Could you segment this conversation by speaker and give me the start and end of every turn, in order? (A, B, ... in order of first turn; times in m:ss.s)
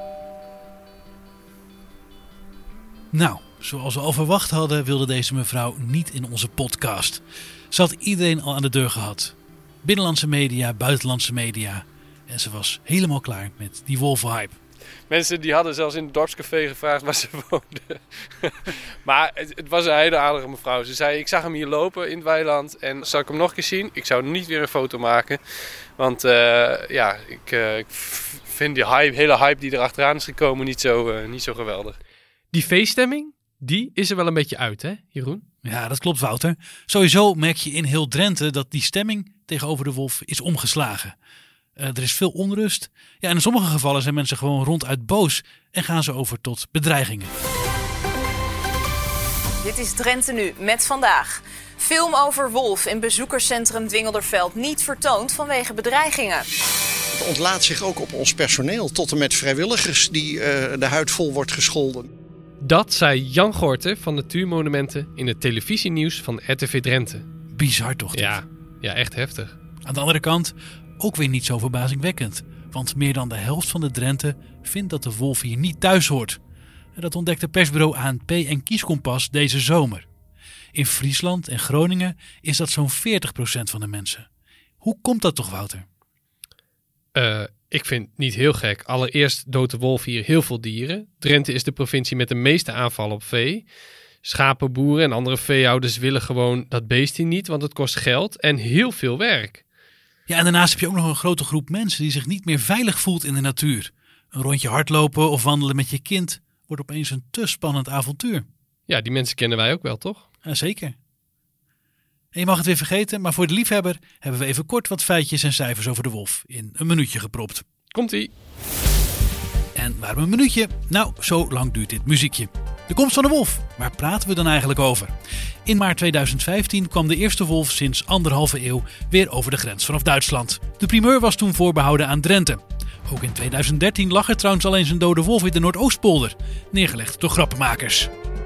0:03.1-0:14.6 A
0:15.1-0:32.0 B
0:32.5-0:35.4 B
0:35.6-0:41.1 A
0:41.8-0:47.3 A
0:49.6-0:56.4 C
0:57.3-1:01.6 D
1:02.6-1:07.2 B
1:07.5-1:08.4 A
1:08.1-1:09.6 B
1:09.8-1:16.4 A
1:17.0-1:20.0 A
1:20.7-1:24.3 A
1:24.8-1:25.8 A
1:27.1-1:33.7 B
1:34.2-1:39.6 B
1:40.3-1:48.4 A
1:48.9-1:50.2 B
1:50.4-1:50.9 A
1:52.3-1:57.6 A
1:57.9-1:58.3 B
1:59.7-2:05.1 A
2:05.6-2:18.1 A